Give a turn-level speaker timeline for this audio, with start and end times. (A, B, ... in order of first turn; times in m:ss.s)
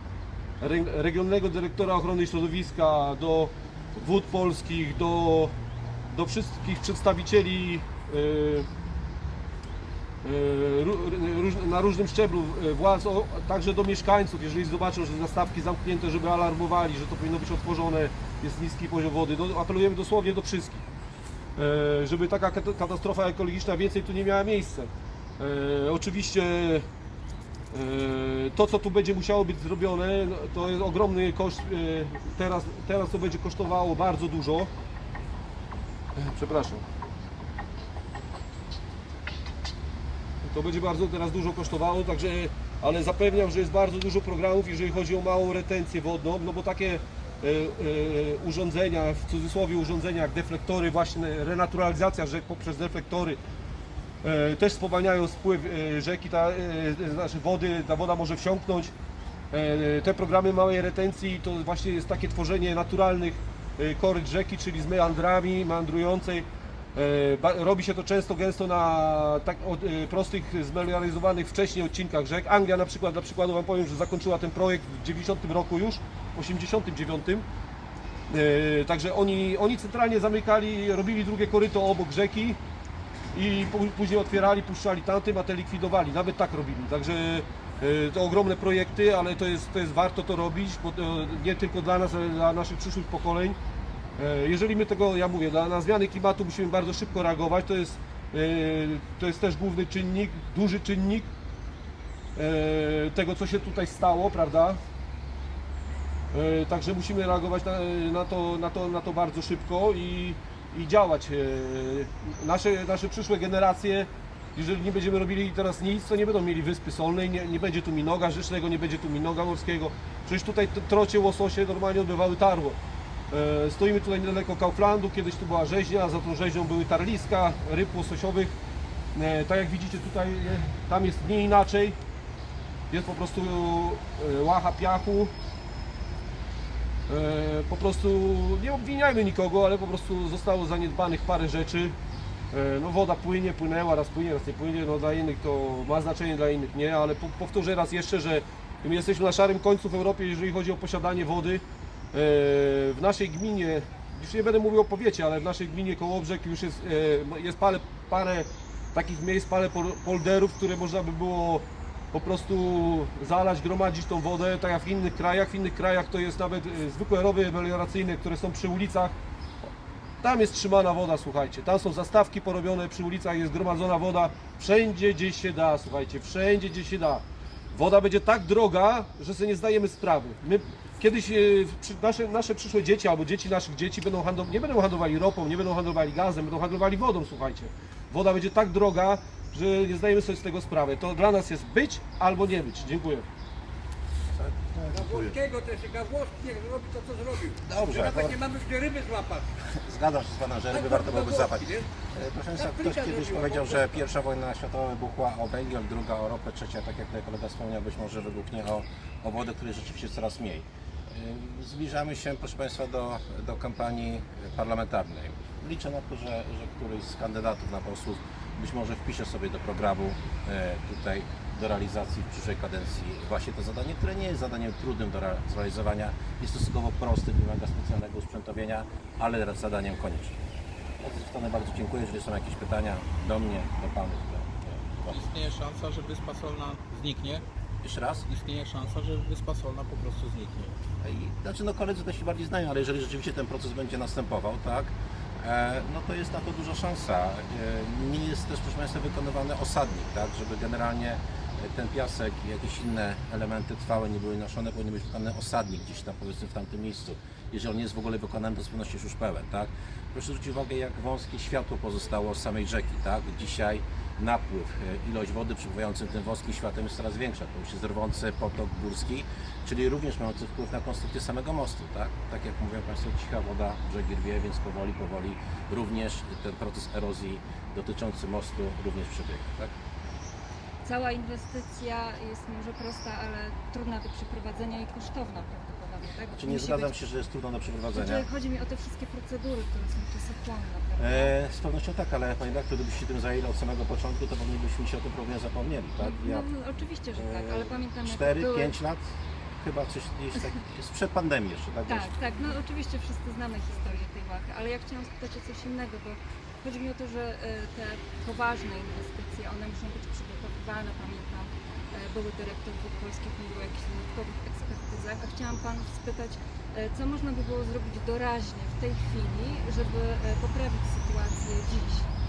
0:00.6-0:05.6 A
0:06.1-0:08.7 A
0:10.2-0:20.9 A
0:21.6-0:26.9 A
0:27.7-0:34.7 A
0:36.2-0:36.8 A
0:40.4-0:53.4 A
0:54.2-0:58.9 A
0:59.5-1:17.4 A
1:18.3-1:22.6 A
1:23.3-1:33.6 A
1:34.2-1:41.3 A
1:42.4-1:44.8 A
1:46.3-2:02.8 A
2:03.3-2:08.6 A
2:09.1-2:12.0 A
2:12.9-2:15.3 A
2:17.1-2:22.0 A
2:22.5-2:49.2 A
2:50.2-3:13.3 A
3:14.3-3:15.4 B
3:14.9-3:19.4 C
3:17.7-3:18.4 B
3:19.6-3:50.4 B
3:20.8-3:21.8 C
3:22.8-3:23.8 C
3:51.0-3:55.2 B
3:55.1-3:57.4 D
3:57.8-3:58.3 B
3:58.3-4:00.8 D
4:01.0-4:39.7 B
4:40.8-4:47.0 E
4:46.3-4:48.3 B
4:47.9-4:51.4 E
4:51.0-4:56.5 B
4:56.0-4:58.8 E
4:57.1-5:02.1 B
5:01.9-5:22.1 E